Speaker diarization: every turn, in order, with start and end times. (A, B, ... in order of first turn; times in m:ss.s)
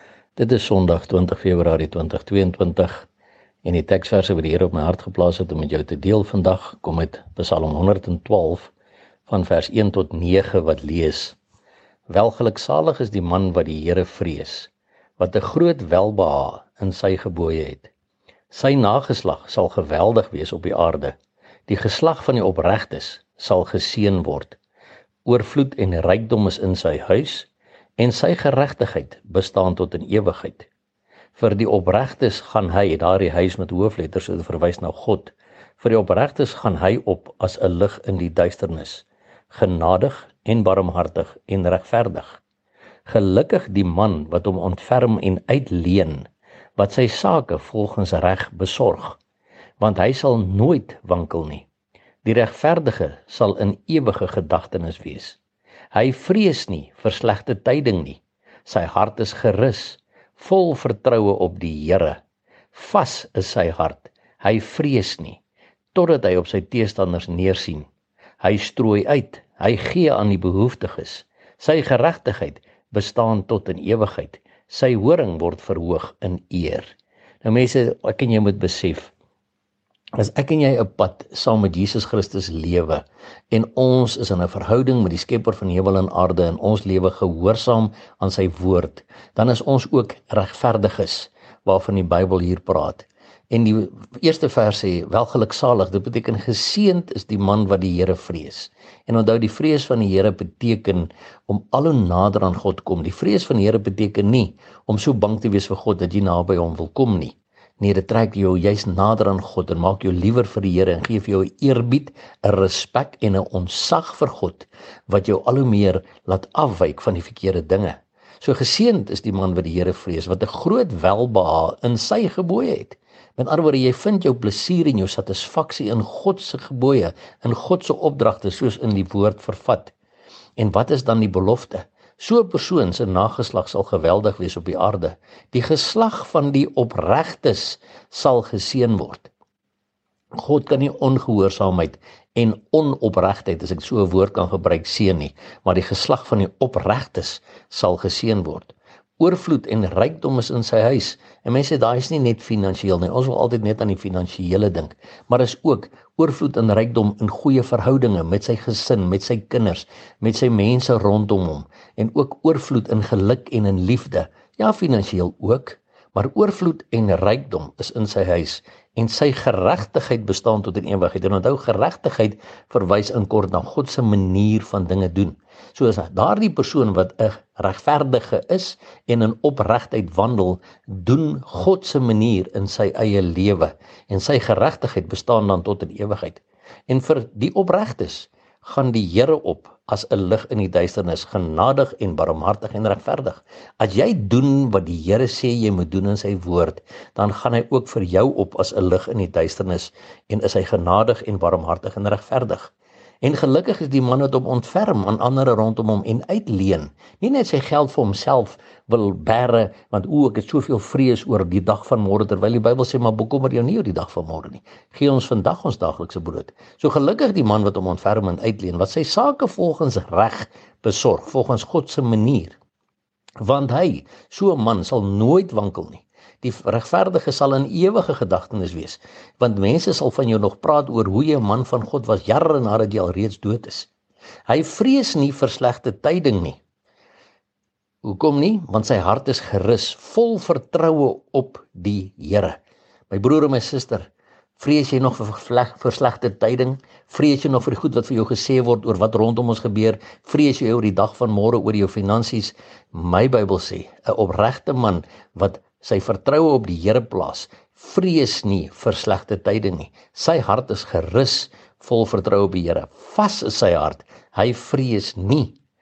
0:00.4-0:03.1 A
0:03.6-0:08.7 A
0:09.3-0:11.4 A
0:12.1-0:17.9 A
0:18.5-0:21.2 A
0:21.7-0:24.6 A
0:25.2-0:30.7 A
0:31.3-0:42.4 A
0:43.0-0:49.2 A
0:49.8-0:51.6 A
0:52.2-0:55.4 A
0:55.9-1:02.2 A
1:02.7-1:05.4 A
1:05.9-1:07.9 A
1:08.4-1:19.1 A
1:20.2-2:09.9 A
2:10.6-2:19.3 A
2:20.4-3:42.6 A
3:43.4-3:53.9 A
3:54.5-3:56.6 A
3:58.0-4:02.6 A
4:03.1-4:25.6 A